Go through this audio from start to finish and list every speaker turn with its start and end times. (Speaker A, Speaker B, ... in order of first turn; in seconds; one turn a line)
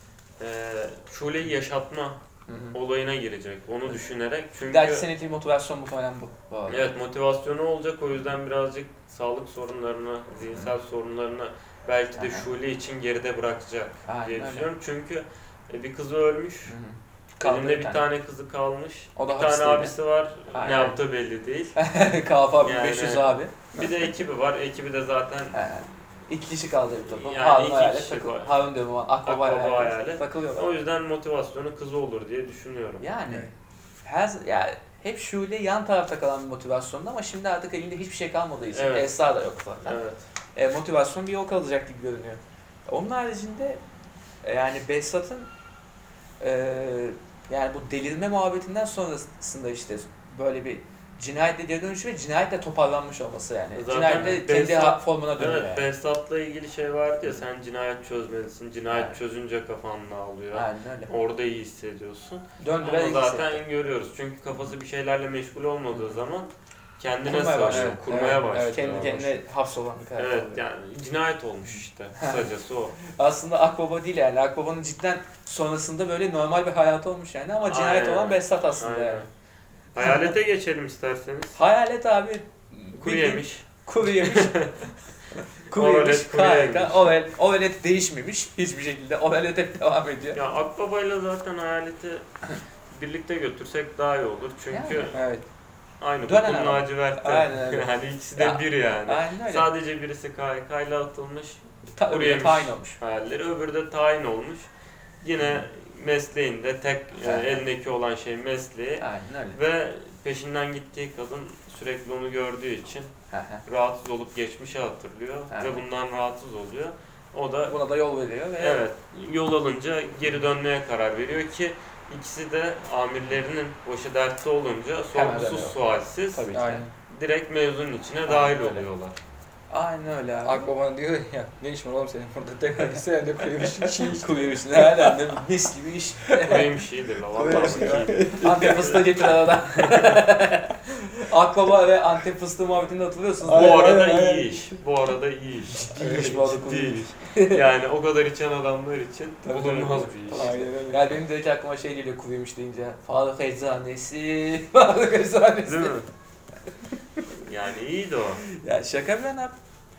Speaker A: 0.4-2.2
Speaker B: 2.5-2.8
Speaker A: 2.7-5.1
Speaker B: 4.7-6.9
Speaker A: 6.7-16.8
Speaker B: 12.2-12.5
Speaker B: 14.1-14.7
Speaker B: 16.7-18.1
Speaker A: 17.4-21.8
Speaker B: 19.2-19.9
Speaker B: 20.5-21.0
Speaker B: 21.8-24.1
Speaker A: 22.6-25.6
Speaker B: 25.5-30.7
Speaker A: 27.1-28.7
Speaker A: 29.2-33.0
Speaker B: 33.0-33.5
Speaker B: 34.0-40.0
Speaker A: 38.7-39.2
Speaker A: 39.8-40.2
Speaker B: 40.6-43.8
Speaker B: 44.4-45.5
Speaker B: 46.4-55.9
Speaker A: 53.7-69.3
Speaker B: 58.9-59.2
Speaker B: 60.5-61.1
Speaker B: 62.6-63.6
Speaker B: 67.2-70.6
Speaker C: 67.6-69.2
Speaker A: 70.2-73.0
Speaker B: 71.7-72.5
Speaker B: 73.0-79.3
Speaker A: 77.6-79.3
Speaker A: 80.0-81.6
Speaker B: 80.0-80.3
Speaker B: 81.5-84.6
Speaker A: 83.0-84.9
Speaker B: 85.3-90.4
Speaker A: 85.7-87.2
Speaker A: 90.3-92.3
Speaker A: 92.9-95.2
Speaker B: 94.7-95.2
Speaker C: 95.1-95.5
Speaker A: 96.0-104.7
Speaker B: 96.3-99.7
Speaker B: 102.0-103.0
Speaker A: 105.2-113.1
Speaker B: 107.2-107.6
Speaker B: 109.0-109.6
Speaker B: 113.3-113.6
Speaker A: 113.7-117.8
Speaker B: 115.5-115.8
Speaker B: 117.7-118.8
Speaker A: 118.6-126.5
Speaker B: 125.1-125.8
Speaker B: 126.3-126.9
Speaker C: 126.5-126.9
Speaker A: 127.1-129.2
Speaker B: 128.3-128.9
Speaker B: 129.7-130.7
Speaker C: 130.4-135.4
Speaker B: 132.8-136.7
Speaker A: 136.4-139.0
Speaker C: 137.3-139.2
Speaker B: 137.4-143.9
Speaker A: 139.8-140.2
Speaker C: 143.4-144.6
Speaker A: 143.5-150.6
Speaker B: 145.8-147.6
Speaker B: 149.4-156.0
Speaker C: 150.3-151.2
Speaker A: 155.7-156.1
Speaker A: 157.4-158.4
Speaker B: 158.4-159.6